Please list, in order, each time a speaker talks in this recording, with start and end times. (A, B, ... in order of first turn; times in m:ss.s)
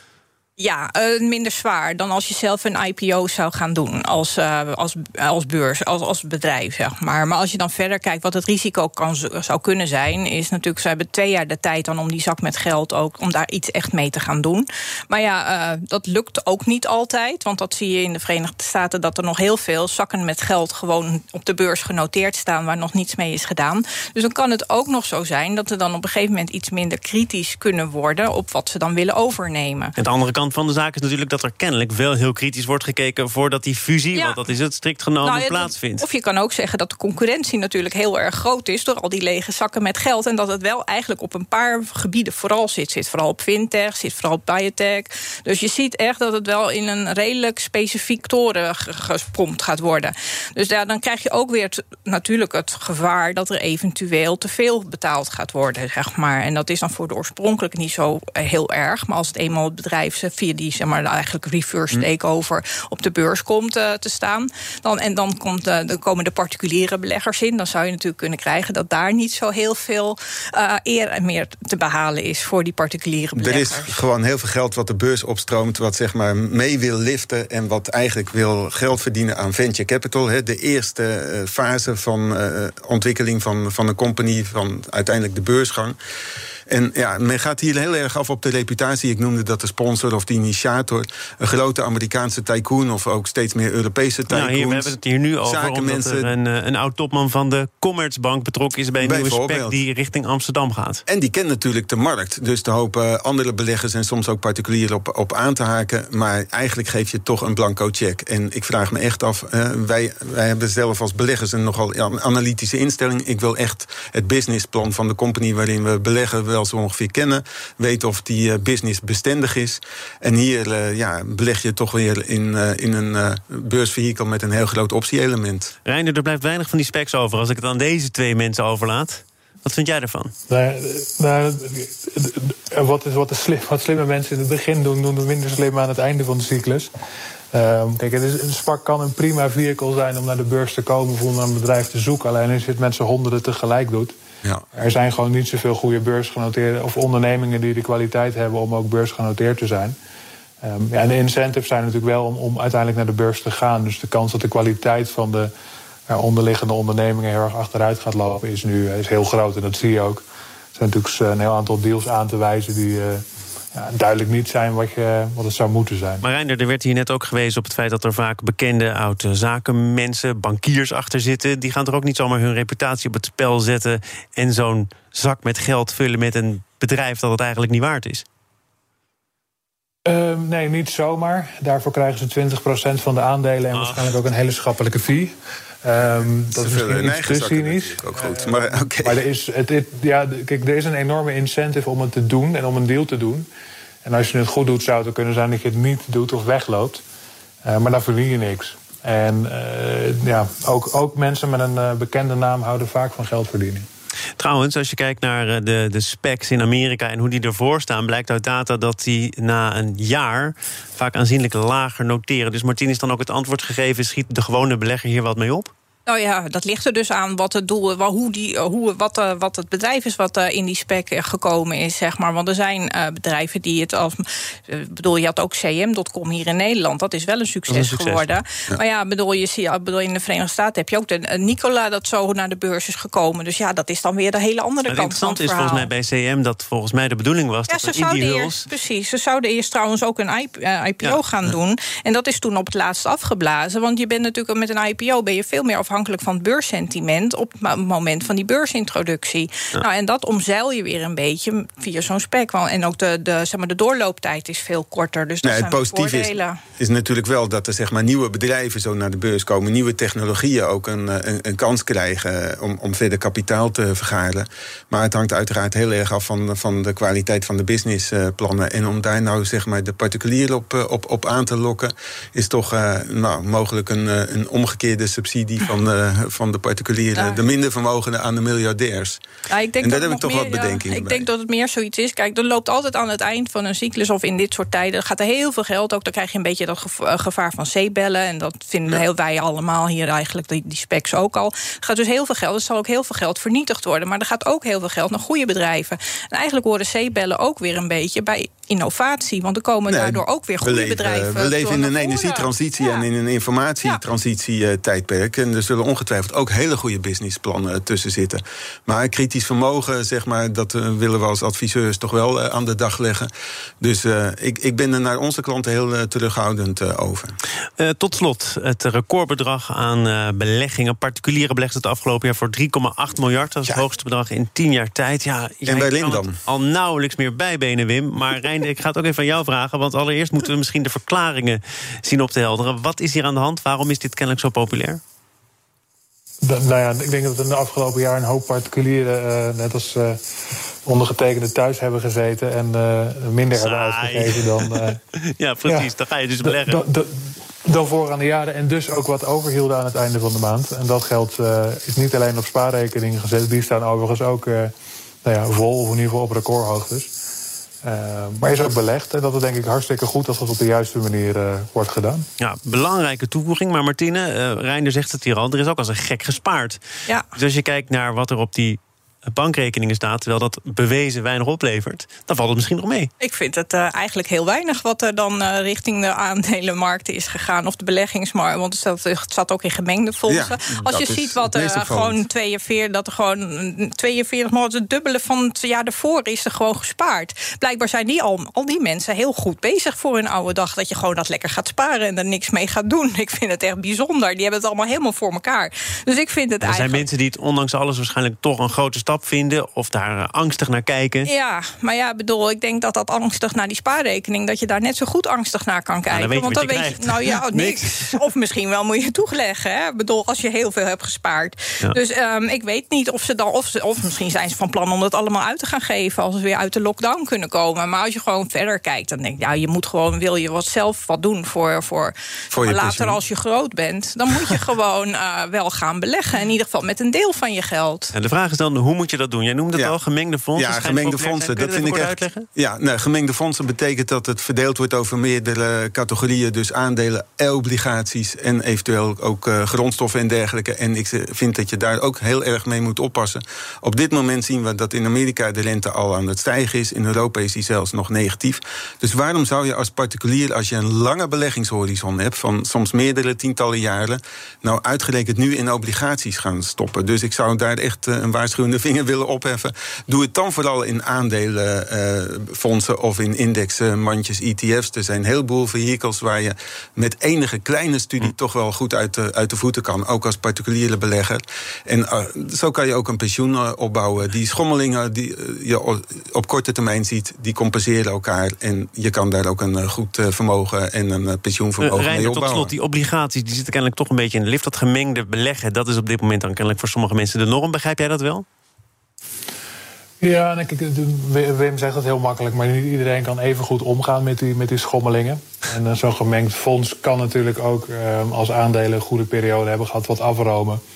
0:00.6-0:29.9 A
0:30.0-0:36.0 B
0:34.1-0:34.4 A
0:35.2-1:14.0 A
1:13.4-1:26.0 C
1:26.7-1:36.3 C
1:34.3-1:41.0 B
1:39.0-1:39.8 C
1:41.1-2:05.7 C
2:05.8-2:10.3 B
2:10.5-2:16.9 D
2:17.5-2:24.1 D
2:24.7-2:30.0 D
2:30.6-2:35.5 D
2:36.1-2:40.2 D
2:40.7-2:46.2 D
2:46.2-2:58.2 B
3:00.0-3:13.5 D
3:03.7-3:04.1 B
3:06.5-3:09.2 C
3:14.0-3:17.0 D
3:17.6-3:23.8 D
3:24.4-3:35.7 B
3:36.1-3:55.9 A
3:47.7-3:48.2 B
3:54.9-3:58.7 B
3:57.7-4:16.6 A
4:15.4-4:39.2 C
4:39.5-5:03.0 A
4:39.8-4:41.2 C
4:59.9-5:13.3 C
5:13.8-5:17.4 C
5:17.8-5:35.0 B
5:25.7-5:26.4 C
5:36.4-5:40.2 D
5:40.8-5:45.0 D
5:43.5-5:46.8 B
5:46.4-5:54.7 D
5:55.2-5:57.1 D
5:57.8-6:02.2 D
6:02.4-6:06.8 B
6:07.3-6:13.1 B
6:13.2-6:37.0 A
6:20.3-6:22.2 C
6:36.6-6:41.3 B
6:41.2-7:08.1 A
6:46.1-6:48.2 B
7:02.5-7:03.2 C
7:08.1-7:12.4 B
7:10.5-8:02.7 C
8:01.8-8:08.4 B
8:10.2-8:20.8 D